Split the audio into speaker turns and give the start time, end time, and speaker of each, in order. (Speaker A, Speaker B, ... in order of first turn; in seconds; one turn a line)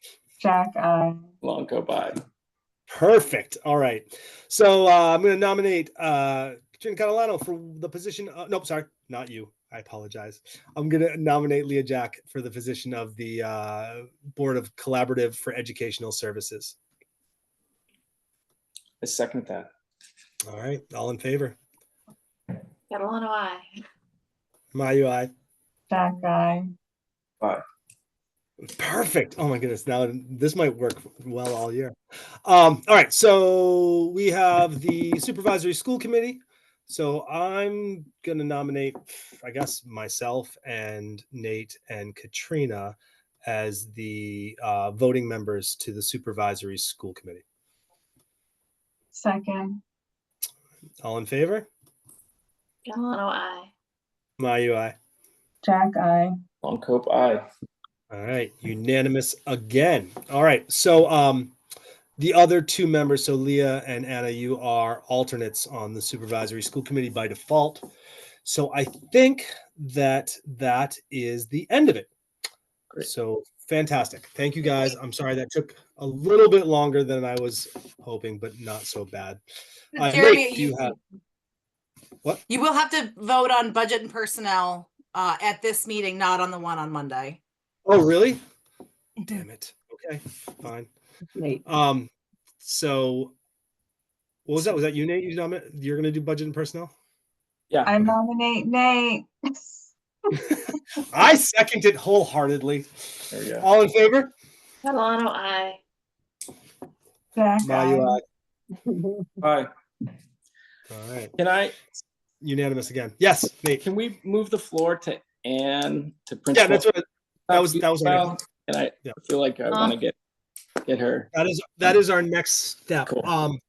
Speaker A: 0.4-1.2
Speaker B: 1.4-2.2
Speaker C: 2.9-16.8
Speaker B: 19.0-19.7
Speaker C: 20.5-21.6
Speaker D: 22.9-23.7
Speaker C: 24.7-25.3
Speaker A: 25.9-26.7
Speaker C: 28.7-31.9
Speaker C: 32.5-47.4
Speaker A: 49.1-49.8
Speaker C: 51.0-51.7
Speaker D: 52.9-53.7
Speaker C: 54.4-55.0
Speaker A: 55.6-56.4
Speaker B: 56.6-57.4
Speaker C: 58.1-61.5
Speaker C: 62.2-67.9
Speaker C: 68.4-72.1
Speaker C: 73.0-79.4
Speaker C: 80.0-81.0
Speaker E: 80.0-81.0
Speaker E: 82.5-87.4
Speaker C: 87.9-88.4
Speaker C: 89.3-90.9
Speaker C: 91.7-92.1
Speaker C: 92.6-93.3
Speaker C: 94.5-96.9
Speaker B: 97.7-98.0
Speaker A: 97.8-99.9
Speaker C: 100.4-102.9
Speaker B: 103.3-103.7
Speaker C: 103.6-104.3
Speaker D: 104.8-105.8
Speaker A: 107.4-108.2
Speaker C: 107.6-108.2
Speaker B: 109.4-109.7
Speaker C: 110.9-111.3
Speaker B: 111.4-111.8
Speaker C: 112.4-113.8
Speaker B: 113.8-116.9
Speaker C: 116.5-118.3
Speaker B: 117.5-120.2
Speaker B: 120.9-121.3
Speaker C: 121.3-123.6
Speaker B: 123.0-123.3